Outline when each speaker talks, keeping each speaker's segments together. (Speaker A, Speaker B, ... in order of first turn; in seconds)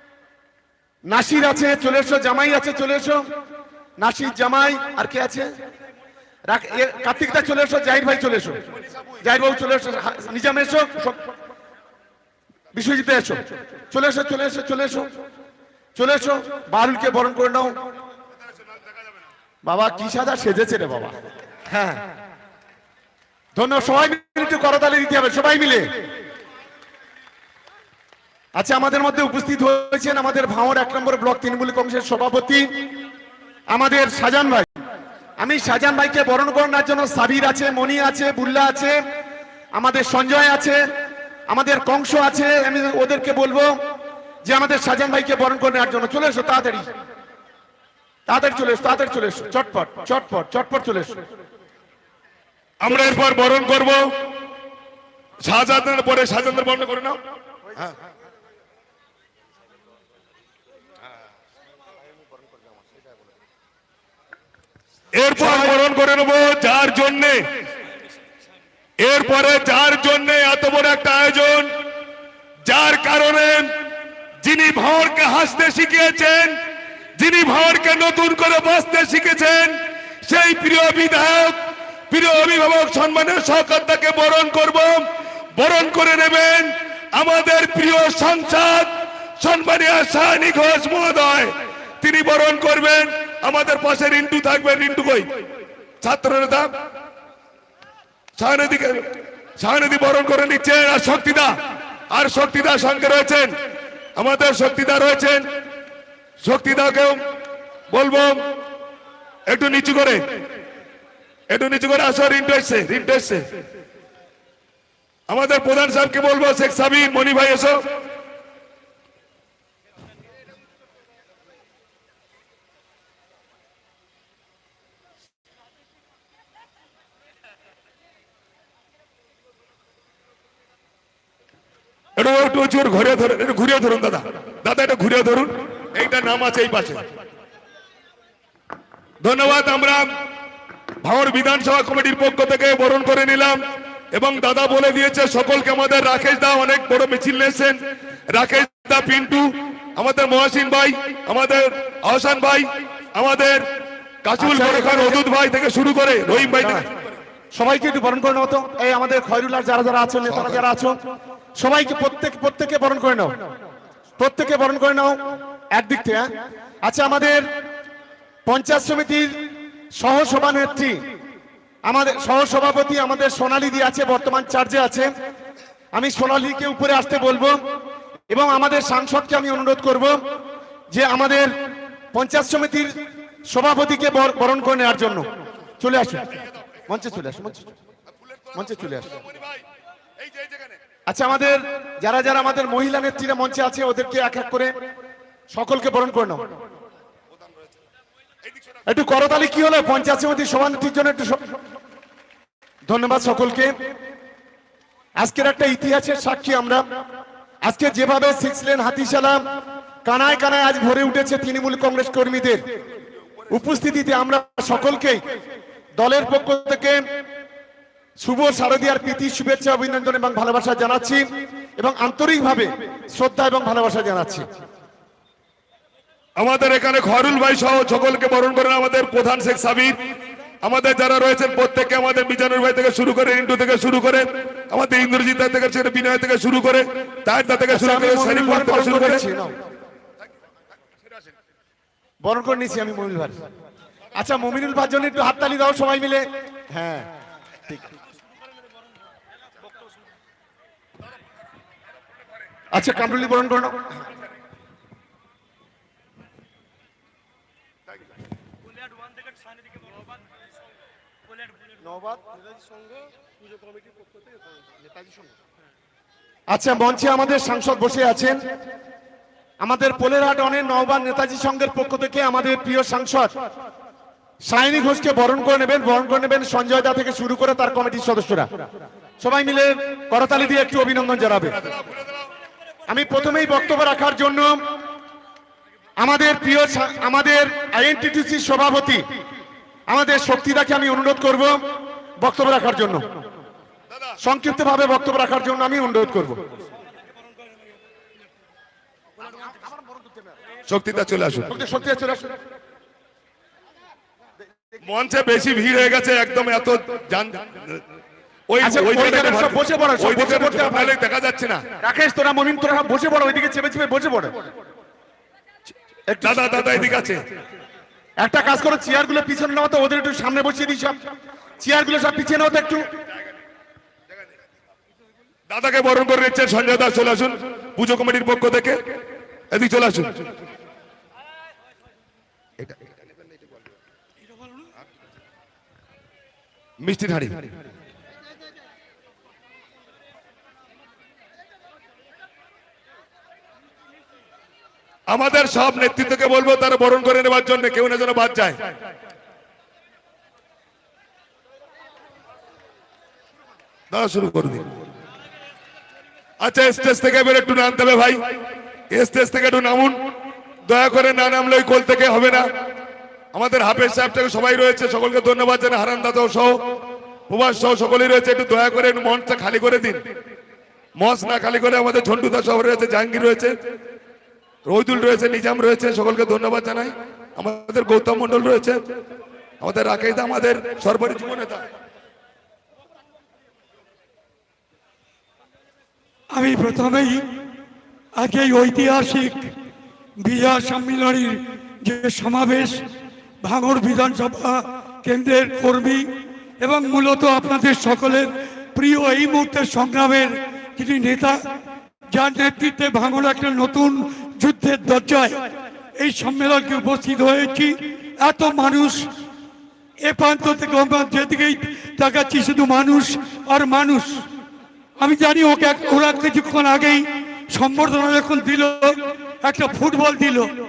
Speaker A: 1.1-3.2, 4.0-5.5, 6.5-8.6, 9.2-11.2, 12.8-13.4, 13.9-15.1, 16.0-17.7, 19.6-21.1, 21.7-22.0, 23.6-25.9, 28.6-32.7, 33.7-34.7, 35.4-39.0, 39.8-40.8, 41.5-43.7, 44.5-46.9, 48.3-51.2, 65.4-65.7, 154.4-155.2, 156.5-156.8, 157.5-161.0, 161.6-163.3, 164.2-165.2, 165.7-166.3, 166.8-167.4, 168.5-169.3, 170.0-171.0, 171.9-175.1, 175.9-177.6, 178.3-180.2, 180.9-181.5, 182.1-182.9, 183.5-185.2, 185.8-186.3, 186.9-187.7, 188.5-189.2, 191.1-194.7, 195.5-196.4, 198.9-201.4, 202.9-203.7, 205.2-206.8, 207.6-209.4, 210.0-212.6, 213.5-215.2, 216.0-217.0, 218.2-221.2, 221.8-224.5, 237.7-239.6, 242.2-243.4, 244.1-247.1, 252.7-253.8, 261.9-262.2, 266.5-268.4, 269.6-273.3, 274.4-278.5, 279.2-281.6, 282.9-284.6, 286.0-289.0, 289.9-291.6, 292.2-293.0, 294.2-296.4, 301.5-302.3, 308.6-310.9, 311.8-314.3, 316.1-316.9, 318.2-321.0, 321.6-322.8
Speaker B: 52.8-54.0, 55.4-57.2, 65.2-67.4, 69.0-71.7, 72.7-73.7, 74.4-76.5, 77.2-79.8, 80.2-81.6, 82.1-95.3, 96.0-96.7, 98.4-99.0, 99.6-101.5, 102.1-103.5, 104.2-105.4, 106.4-107.2, 107.9-108.4, 109.5-110.2, 111.5-113.4, 115.3-117.8, 132.2-137.0, 139.2-140.1, 141.0-143.6, 144.1-147.8, 148.3-153.6, 154.2-156.8, 160.3-160.6, 190.4-190.7, 226.4-229.9, 230.6-239.2, 300.7-301.5, 304.9-307.4, 308.5-311.6, 316.2-317.2, 325.5-328.8, 329.5-330.1, 336.8-337.4, 345.1-348.6, 353.9-354.6, 356.4-358.2, 358.9-360.0, 360.6-362.5, 363.3-366.6, 367.3-370.0, 371.0-373.5, 374.6-378.8, 379.6-381.6
Speaker C: 386.3-387.2, 388.2-389.5, 390.2-392.8, 393.4-396.1, 396.6-401.4, 402.1-405.4, 406.0-409.0, 410.1-414.2, 415.0-417.0, 417.5-420.5